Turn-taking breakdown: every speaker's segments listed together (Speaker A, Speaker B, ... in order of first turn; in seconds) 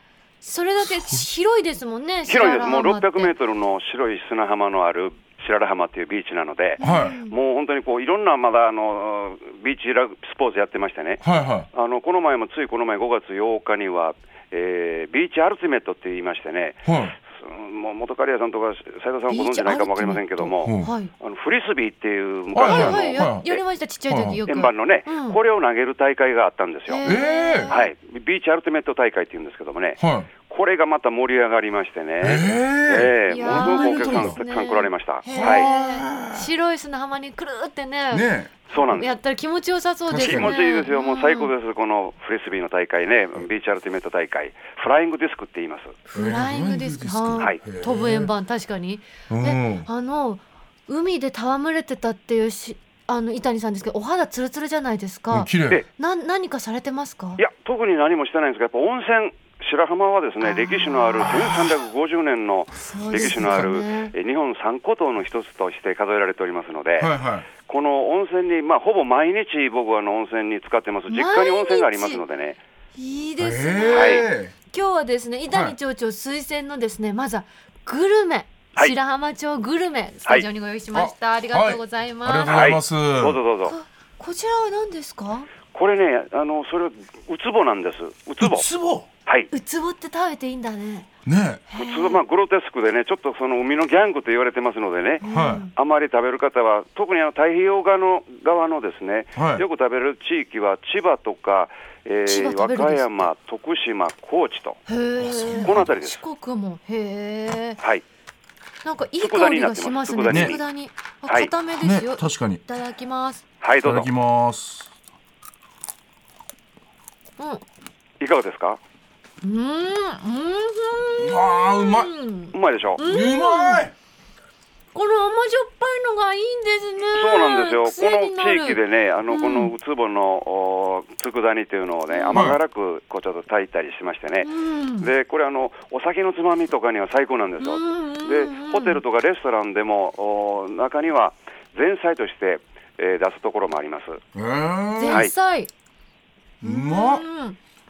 Speaker A: 0.4-3.3, 6.8-7.3, 19.3-21.1, 22.6-25.4, 26.9-27.8, 33.3-38.2, 38.8-41.5, 46.1-57.4, 60.4-61.3, 62.8-64.1, 71.1-72.2, 73.0-82.6, 83.7-85.5, 89.5-91.1, 91.7-92.2, 95.2-95.7, 102.3-103.2, 104.9-107.8, 108.8-113.4, 119.4-123.9, 124.9-129.7, 132.1-132.4, 134.4-135.1, 137.6-139.0, 145.0-145.7, 146.6-147.6
Speaker B: 0.8-1.3, 6.8-7.2, 11.2-11.7, 16.9-17.1, 20.6-20.9, 22.5-23.4, 24.1-24.4, 27.1-27.8, 30.0-30.3, 32.2-34.4, 35.3-36.5, 38.1-38.5, 40.1-40.6, 46.1-48.3, 49.3-49.9, 55.3-55.8, 61.2-61.7, 63.1-63.6, 67.0-67.5, 73.4-74.5, 75.5-75.8, 80.9-83.4, 88.4-89.1, 91.2-91.6, 95.2-95.7, 99.3-99.7, 105.2-105.9, 110.3-110.6, 111.8-112.6, 113.8-114.9, 121.2-122.1, 123.0-123.9, 132.3-132.6, 144.3-145.2, 146.6-147.2
Speaker C: 2.3-23.6, 24.5-27.1, 27.7-35.7, 38.7-39.1, 40.2-46.0, 57.4-67.1, 67.6-72.6, 73.9-74.2, 82.5-83.8, 85.7-88.7, 89.2-89.5, 91.8-104.8, 105.5-106.2, 109.2-110.6, 113.6-114.1, 118.2-118.8, 122.5-123.0, 127.1-144.2